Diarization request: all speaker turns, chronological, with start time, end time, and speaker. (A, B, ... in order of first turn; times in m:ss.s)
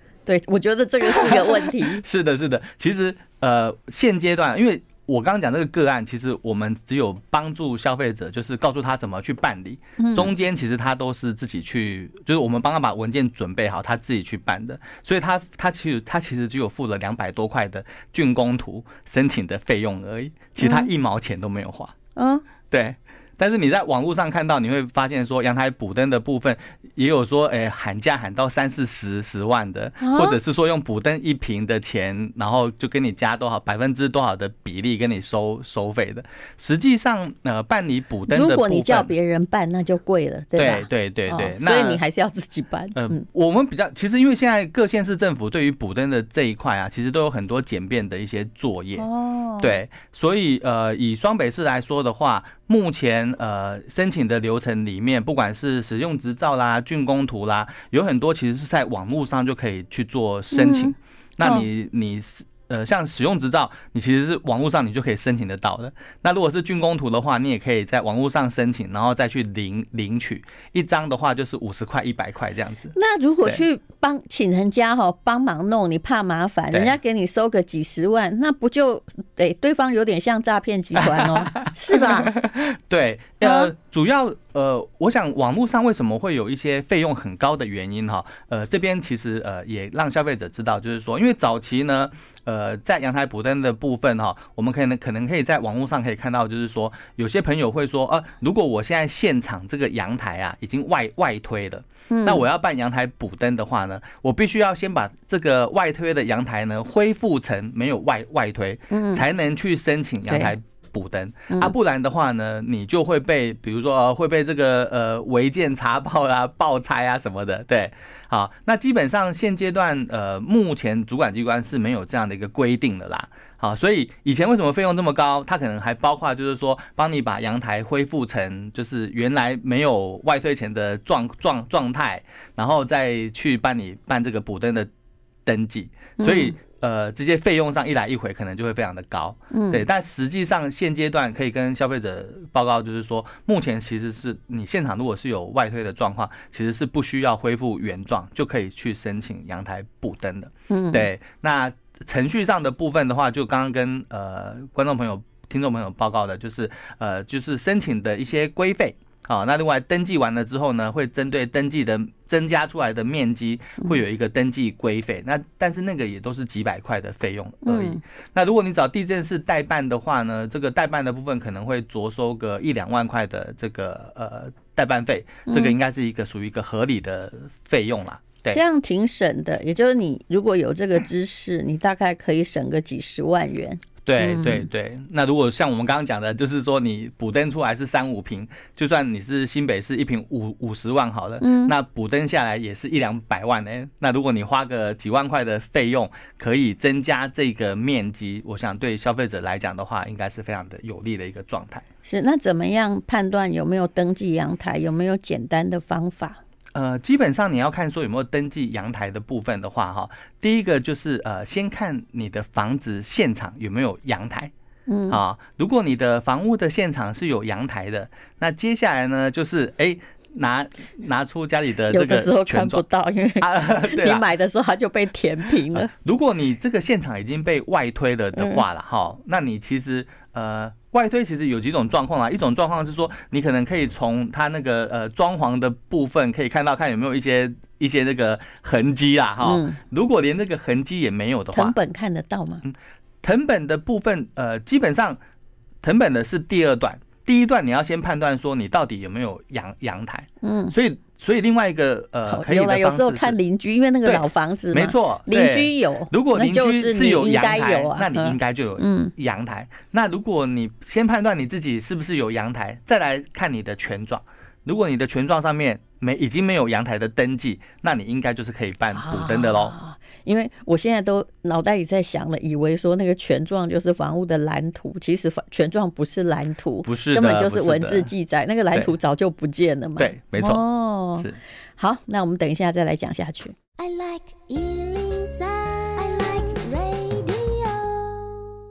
0:00.3-0:02.0 A
0:01.2-0:22.0 B
0:10.0-0:10.3 A
0:20.6-0:20.9 A
0:22.2-0:22.4 A
0:22.7-0:39.1 B
0:30.0-0:30.4 A
0:38.3-0:43.2 A
0:40.6-0:42.0 B
0:43.0-0:49.1 B
0:49.0-0:49.8 A
0:49.6-1:13.6 B
1:00.5-1:01.7 A
1:13.0-1:22.3 A
1:16.7-1:17.0 B
1:21.0-2:14.9 B
1:23.4-1:23.7 A
1:42.1-1:42.4 A
1:48.9-1:49.2 A
1:50.3-1:50.5 A
2:15.4-2:58.6 B
2:16.2-2:16.6 A
2:19.5-2:19.8 A
2:30.7-2:31.1 A
2:47.6-2:48.0 A
2:55.5-2:55.8 A
2:58.5-3:04.7 A
3:04.0-3:21.9 B
3:11.4-3:11.7 A
3:22.0-3:26.4 A
3:26.7-3:34.5 B
3:34.9-3:35.2 A
3:35.1-3:42.8 B
3:41.9-3:45.9 A
3:43.4-3:44.3 B
3:45.7-4:01.8 B
3:48.4-3:48.6 A
3:59.4-3:59.8 A
4:01.5-4:02.6 A
4:02.6-4:05.2 B
4:05.8-4:13.4 B
4:10.4-4:10.7 A
4:12.3-4:19.1 A
4:14.0-4:29.8 B
4:28.9-4:41.3 A
4:36.8-4:38.1 B
4:40.0-4:40.6 B
4:41.8-4:43.6 A
4:43.8-4:48.6 C